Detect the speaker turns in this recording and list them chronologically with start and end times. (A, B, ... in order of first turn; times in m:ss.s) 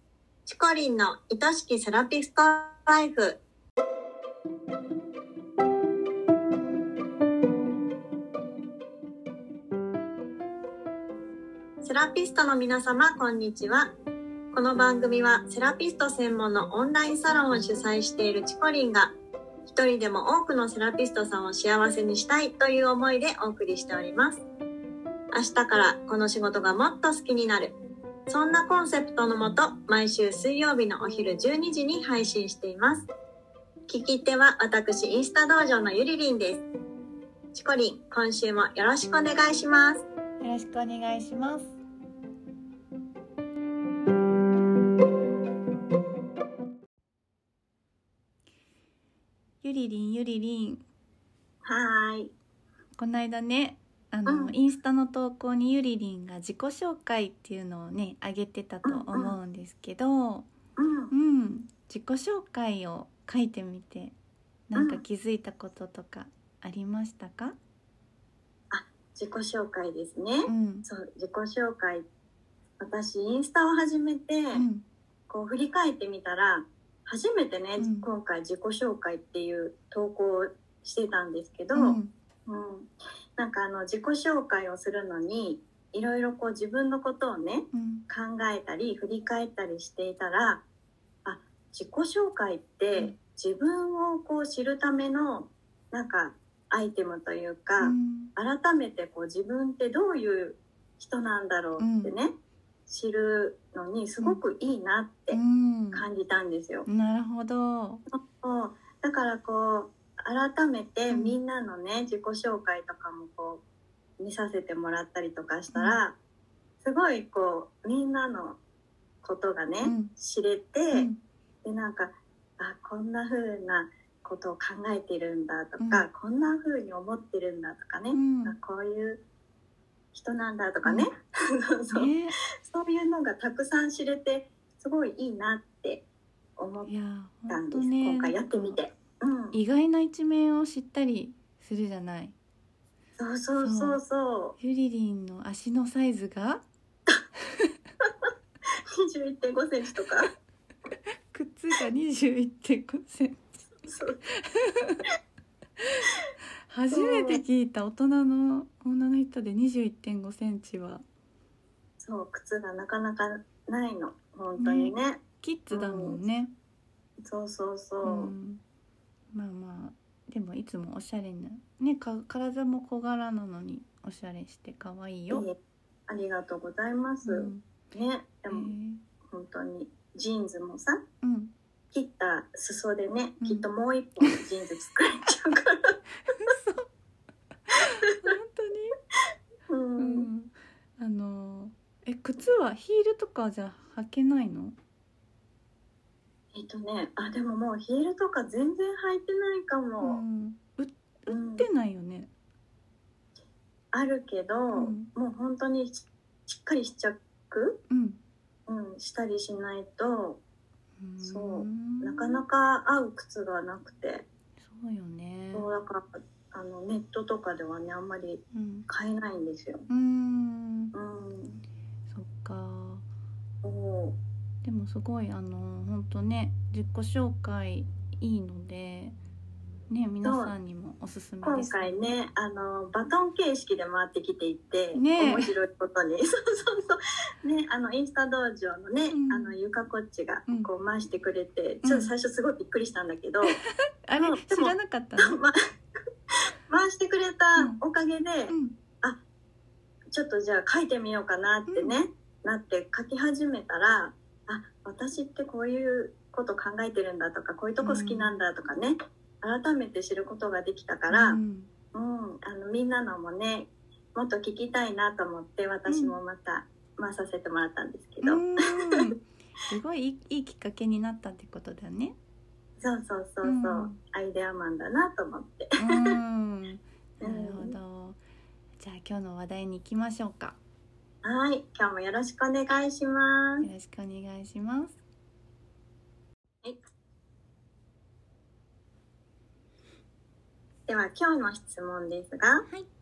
0:00.4-0:03.4 A
0:11.8-0:13.9 A
0:14.5-0:19.1 A
0:19.6-0:24.4 A
0:25.3-0:27.8 A
0:28.3-0:33.1 A
0:33.9-0:36.6 A
0:37.5-0:40.0 A
0:40.4-0:41.8 B
0:49.6-0:50.8 B
0:51.6-0:52.3 A
0:53.0-1:00.5 B
0:54.2-0:54.6 A
0:58.8-0:59.4 A
1:00.8-1:01.1 A
1:01.1-1:04.2 B
1:04.7-1:07.5 B
1:04.7-1:05.0 A
1:08.7-1:12.1 A
1:10.4-1:10.8 B
1:12.8-1:14.6 A
1:14.5-1:14.8 B
1:15.3-1:30.6 A
1:17.8-1:18.1 B
1:21.7-1:22.1 B
1:27.7-1:28.0 B
1:31.2-1:42.3 A
1:37.8-1:38.3 B
1:41.8-1:42.1 B
1:42.9-1:45.4 A
1:45.3-1:46.1 B
1:45.9-1:46.9 A
1:46.8-1:48.0 B
1:48.1-1:53.6 A
1:51.1-1:51.4 B
1:54.2-1:56.2 A
1:55.7-1:56.0 B
1:56.8-1:58.6 A
1:59.2-2:01.1 A
1:59.8-2:00.1 B
2:00.9-2:01.2 B
2:01.6-2:09.2 A
2:05.8-2:06.1 B
2:08.1-2:08.6 B
2:10.1-2:16.0 A
2:10.8-2:11.1 B
2:11.9-2:12.3 B
2:16.6-2:16.9 A
2:16.9-2:18.8 B
2:17.5-2:19.6 A
2:19.5-2:22.3 B
2:23.2-2:24.6 A
2:23.6-2:24.0 B
2:24.6-2:26.6 B
2:28.0-2:28.3 A
2:28.9-2:30.3 A
2:31.3-2:33.7 B
2:33.8-2:34.2 A
2:34.4-2:35.0 B
2:36.7-2:41.0 B
2:36.9-2:37.4 A
2:42.0-2:46.2 A
2:44.6-2:46.5 B
2:47.2-2:48.3 A
2:48.0-2:48.6 B
2:49.3-2:55.5 B
2:56.1-2:58.7 A
2:57.2-2:57.6 B
2:58.5-2:59.0 B
2:59.3-3:01.0 A
3:01.2-3:01.5 B
3:01.9-3:06.0 A
3:03.4-3:03.7 B
3:06.4-3:06.8 B
3:08.0-3:08.9 B
3:09.7-3:10.3 A
3:10.0-3:14.8 B
3:16.5-3:20.2 A
3:20.0-3:22.3 B
3:21.3-3:21.6 A
3:23.9-3:27.8 A
3:24.7-3:25.1 B
3:27.9-3:28.2 B
3:28.7-3:30.4 A
3:31.0-3:32.4 B
3:31.2-3:34.2 A
3:34.6-3:35.7 B
3:35.5-3:39.8 A
3:38.5-3:38.9 B
3:39.9-3:40.9 B
3:40.9-3:41.6 A
3:42.1-3:43.0 B
3:43.6-3:44.2 A
3:44.6-3:49.2 B
3:49.9-3:52.1 B
3:50.2-3:50.5 A
3:51.4-4:03.6 A
3:54.9-3:55.5 B
3:59.1-3:59.6 B
4:01.8-4:02.1 B
4:03.5-4:05.4 B
4:04.2-4:05.5 A
4:06.3-4:09.2 A
4:08.5-4:08.8 B
4:10.1-4:21.4 A
4:11.7-4:12.0 B
4:17.8-4:18.4 B
4:21.1-4:21.7 B
4:21.9-4:29.0 A
4:25.9-4:26.1 B
4:28.2-4:32.2 B
4:32.8-4:36.2 A
4:33.4-4:34.0 B
4:35.8-4:38.2 B
4:37.2-4:37.7 A
4:38.8-4:40.6 B
4:41.2-4:43.7 A
4:43.6-4:45.0 B
4:50.9-4:52.7 A